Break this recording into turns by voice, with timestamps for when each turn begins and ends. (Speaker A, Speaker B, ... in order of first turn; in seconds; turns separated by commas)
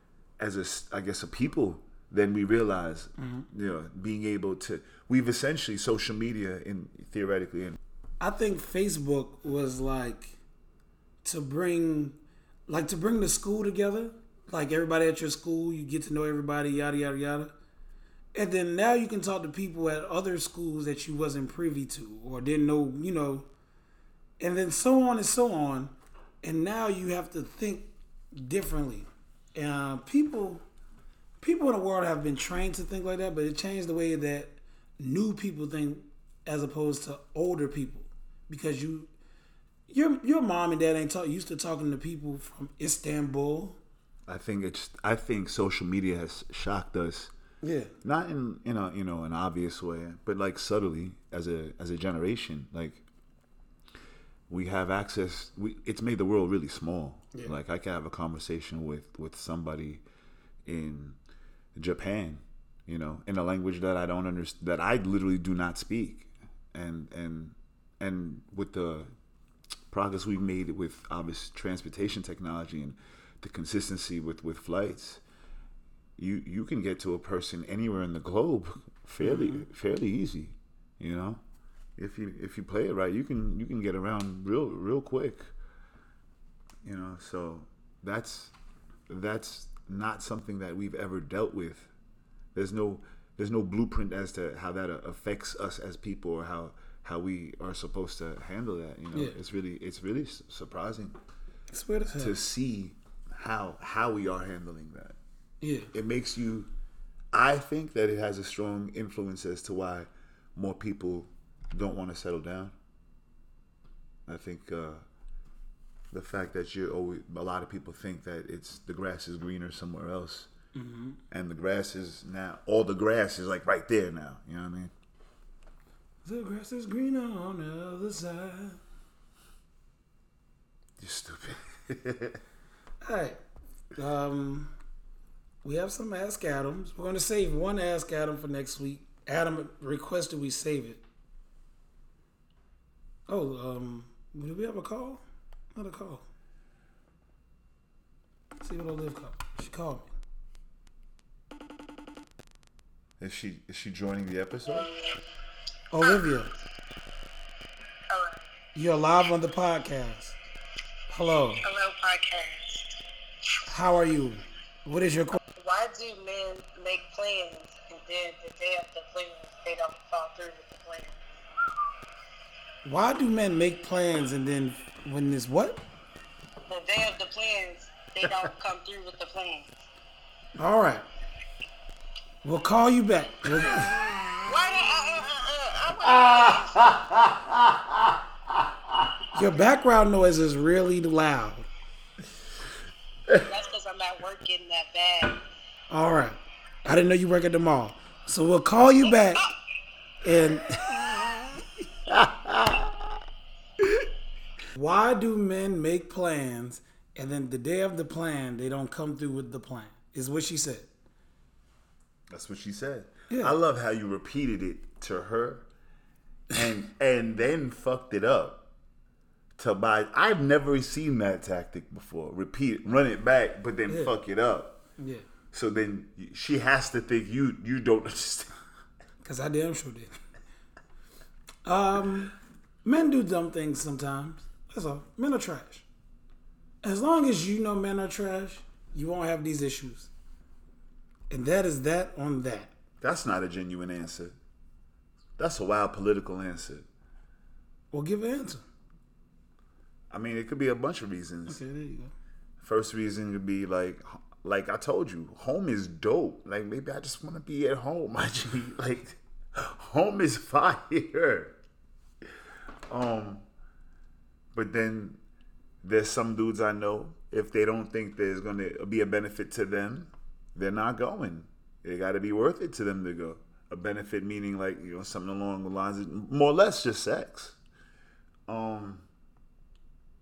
Speaker A: 0.4-7.8, Speaker B: 3.2-3.5, Speaker B: 8.2-10.4, Speaker B: 11.2-12.2, Speaker B: 12.7-17.5, Speaker B: 18.3-23.5, Speaker B: 24.4-30.6, Speaker B: 31.4-39.1, Speaker B: 39.9-43.8, Speaker A: 44.3-47.3, Speaker B: 47.6-47.9, Speaker A: 48.0-53.0, Speaker A: 54.5-60.0, Speaker A: 60.6-61.2, Speaker A: 61.8-69.1, Speaker A: 69.9-75.2, Speaker A: 76.2-81.4, Speaker B: 79.2-79.7, Speaker A: 82.0-85.5, Speaker A: 86.8-88.5, Speaker A: 89.1-91.9, Speaker A: 92.5-101.2, Speaker B: 101.7-102.4, Speaker A: 102.2-105.2, Speaker B: 105.6-105.9, Speaker A: 105.9-106.7, Speaker A: 107.3-112.7, Speaker A: 114.3-115.0, Speaker A: 116.1-120.5, Speaker B: 120.7-121.2, Speaker A: 121.3-124.9, Speaker B: 126.2-128.8, Speaker A: 131.0-132.4, Speaker B: 133.0-133.4, Speaker B: 133.9-134.7, Speaker B: 135.6-141.0, Speaker B: 143.3-145.2, Speaker B: 145.7-146.2, Speaker B: 148.6-150.1, Speaker A: 153.2-154.9, Speaker B: 155.9-156.5, Speaker C: 158.1-158.4, Speaker B: 158.8-160.4, Speaker B: 161.1-161.7, Speaker C: 161.6-163.0, Speaker B: 163.7-165.4, Speaker C: 165.5-171.2, Speaker B: 172.8-175.8, Speaker C: 176.7-179.7, Speaker B: 180.6-181.1, Speaker B: 182.4-184.0, Speaker C: 184.4-187.0, Speaker A: 186.1-188.1, Speaker B: 189.3-191.7, Speaker C: 193.3-195.4, Speaker B: 195.9-199.4, Speaker B: 200.2-201.6, Speaker A: 202.1-203.1, Speaker B: 204.7-210.9, Speaker A: 212.3-215.7, Speaker B: 213.3-213.6, Speaker A: 216.5-218.6, Speaker A: 219.6-224.8, Speaker B: 223.9-224.1, Speaker B: 225.0-225.2, Speaker A: 225.5-228.5, Speaker B: 229.2-230.1, Speaker B: 231.7-232.3, Speaker B: 232.8-235.8, Speaker B: 236.8-240.1, Speaker B: 241.3-242.7, Speaker A: 243.0-244.3, Speaker A: 245.4-246.9, Speaker B: 247.9-248.6, Speaker A: 250.1-251.6, Speaker B: 251.5-252.1, Speaker A: 252.6-261.6, Speaker A: 262.9-263.4, Speaker A: 264.5-265.2, Speaker A: 265.8-277.6, Speaker A: 278.5-279.0